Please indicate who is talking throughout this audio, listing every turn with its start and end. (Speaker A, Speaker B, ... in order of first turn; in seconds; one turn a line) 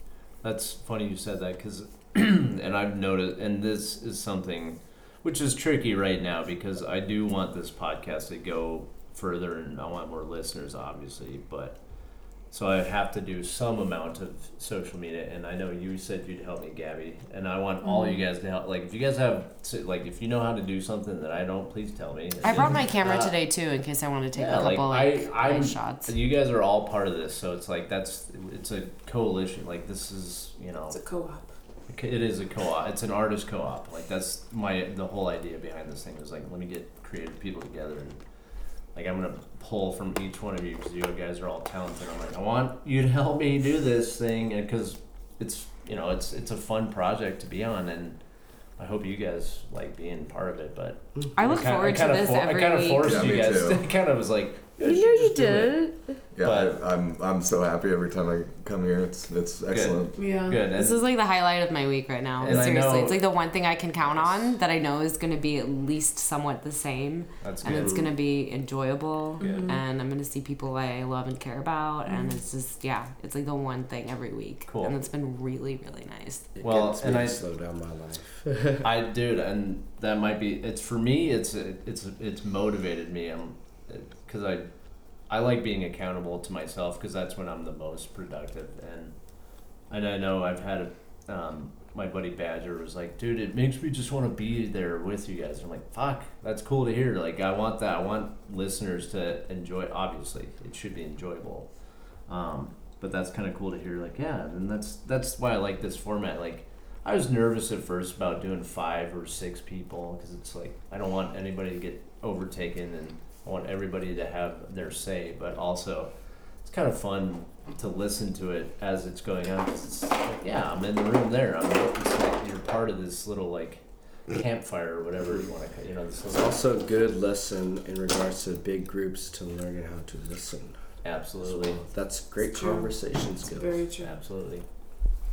Speaker A: 0.4-11.8
Speaker A: 12.5-23.4
Speaker B: 17.9-18.2
Speaker C: 22.4-26.1
Speaker A: 24.3-31.0
Speaker B: 30.9-31.5
Speaker A: 31.9-38.2
Speaker A: 39.0-48.2
Speaker A: 48.8-55.8
Speaker C: 51.4-53.4
Speaker D: 53.0-53.8
Speaker C: 54.8-56.0
Speaker D: 56.4-60.2
Speaker A: 56.4-56.8
Speaker A: 59.7-61.0
Speaker B: 60.2-60.6
Speaker C: 60.7-76.5
Speaker A: 62.4-63.3
Speaker A: 64.0-64.5
Speaker A: 67.4-68.1
Speaker E: 67.7-68.1
Speaker A: 69.4-69.7
Speaker B: 69.4-69.8
Speaker B: 72.1-72.4
Speaker A: 74.7-75.0
Speaker E: 76.6-78.8
Speaker A: 76.6-77.4
Speaker A: 78.8-84.7
Speaker A: 85.3-89.2
Speaker A: 89.9-101.7
Speaker A: 102.3-116.1
Speaker A: 116.7-126.7
Speaker E: 126.3-130.8
Speaker A: 131.0-131.8
Speaker E: 131.4-133.8
Speaker B: 132.5-132.9
Speaker B: 133.5-134.1
Speaker A: 134.0-134.7